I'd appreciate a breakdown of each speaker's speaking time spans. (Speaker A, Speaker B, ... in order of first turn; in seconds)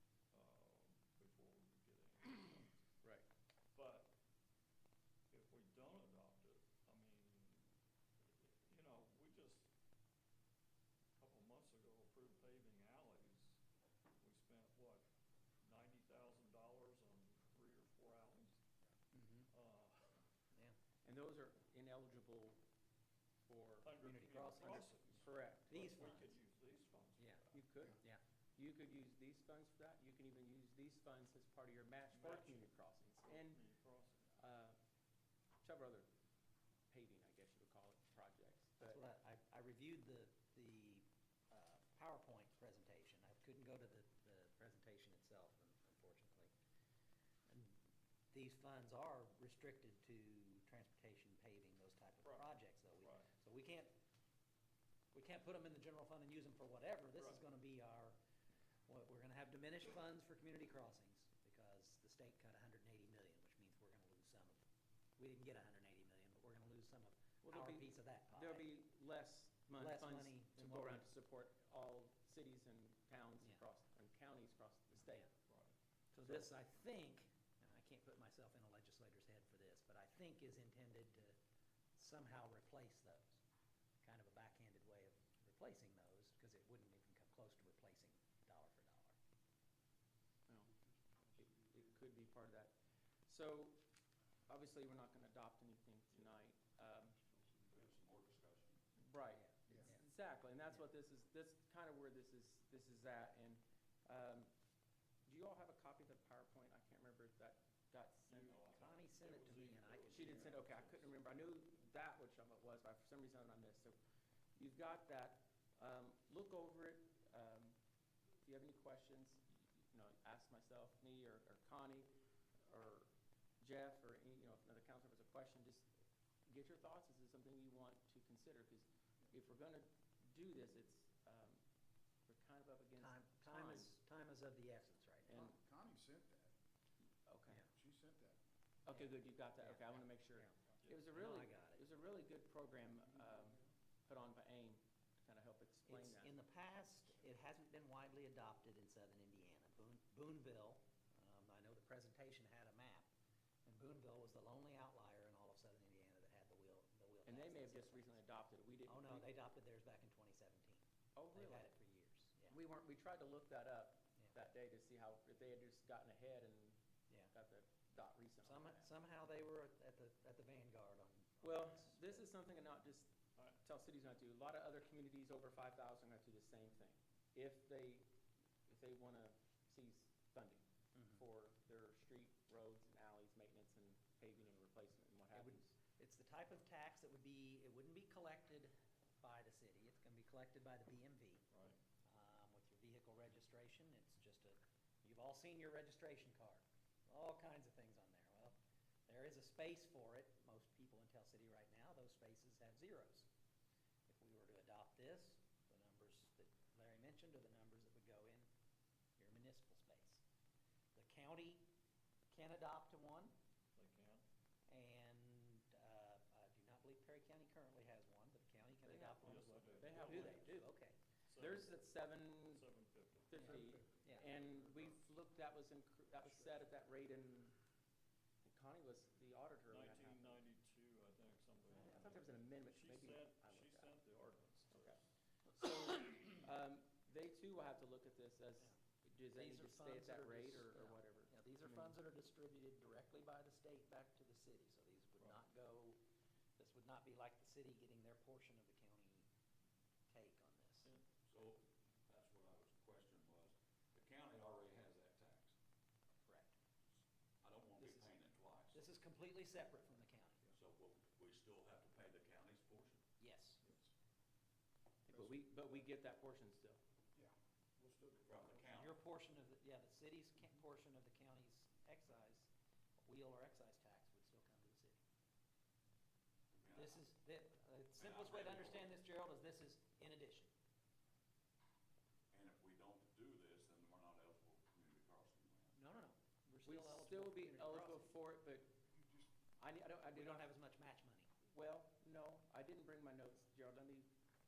Speaker A: 0.3-2.8, 3.7-4.1, 5.3-7.7, 8.4-9.7, 11.2-13.6, 14.2-15.1, 15.6-18.6, 19.5-20.2, 23.8-27.6, 32.1-32.7, 33.2-34.4, 53.0-53.3, 75.5-75.8, 108.3-108.7, 109.3-111.2, 191.5-191.8, 213.8-214.2, 219.2-220.5, 221.3-221.9, 222.5-223.3, 229.7-235.0
Speaker B: 19.1-19.5, 24.0-24.9, 25.7-26.4, 27.2-27.4, 38.8-46.5, 47.5-47.8, 48.3-53.9, 55.1-58.2, 58.9-64.6, 65.2-68.8, 69.7-71.1, 75.0-75.3, 76.1-81.4, 82.0-83.4, 84.0-89.2, 99.3-100.0, 108.7-110.5, 133.0-135.5, 139.6-140.5, 141.1-141.8, 145.9-153.1, 153.7-158.2, 158.9-160.8, 161.3-162.6, 168.4-172.2, 180.9-181.2, 185.3-191.4, 192.1-198.6, 199.1-203.3, 204.1-208.5, 209.2-210.2, 210.9-211.7, 212.3-213.3, 214.7-221.0, 223.3-224.4, 239.3-246.0, 246.6-249.3, 250.1-250.9, 256.2-256.6, 257.8-258.2, 258.7-260.4, 263.2-263.6, 268.7-272.5, 273.0-275.0, 276.7-280.5, 285.8-288.1, 290.0-291.3
Speaker C: 21.1-22.6, 23.5-26.0, 27.5-33.6, 34.4-34.8, 35.6-36.1, 36.9-39.0, 67.4-75.3, 76.2-76.5, 91.4-92.8, 93.3-93.8, 94.5-97.2, 99.0-104.5, 105.3-108.5, 110.1-114.0, 114.6-117.8, 118.4-123.1, 123.6-125.9, 126.5-131.6, 132.3-133.9, 135.3-135.6, 137.3-137.7, 138.9-146.3, 157.3-159.3, 161.2-161.7, 162.5-166.8, 167.3-168.9, 171.4-178.1, 178.7-185.8, 218.8-220.6, 221.4-222.7, 223.3-227.6, 228.4-230.4, 231.7-233.9, 234.7-235.0, 235.5-242.0, 265.1-266.8, 286.7-288.7, 289.6-290.5, 291.5-294.1
Speaker D: 91.1-91.9, 97.0-98.0, 135.4-136.5, 137.6-138.4, 142.9-143.7, 263.6-263.9, 265.1-265.4, 267.1-268.6, 289.0-289.3
Speaker E: 97.7-98.8, 108.3-110.5, 251.3-255.6, 257.4-258.8, 260.6-263.0, 268.3-269.0, 276.5-277.0, 278.0-278.9, 282.3-285.8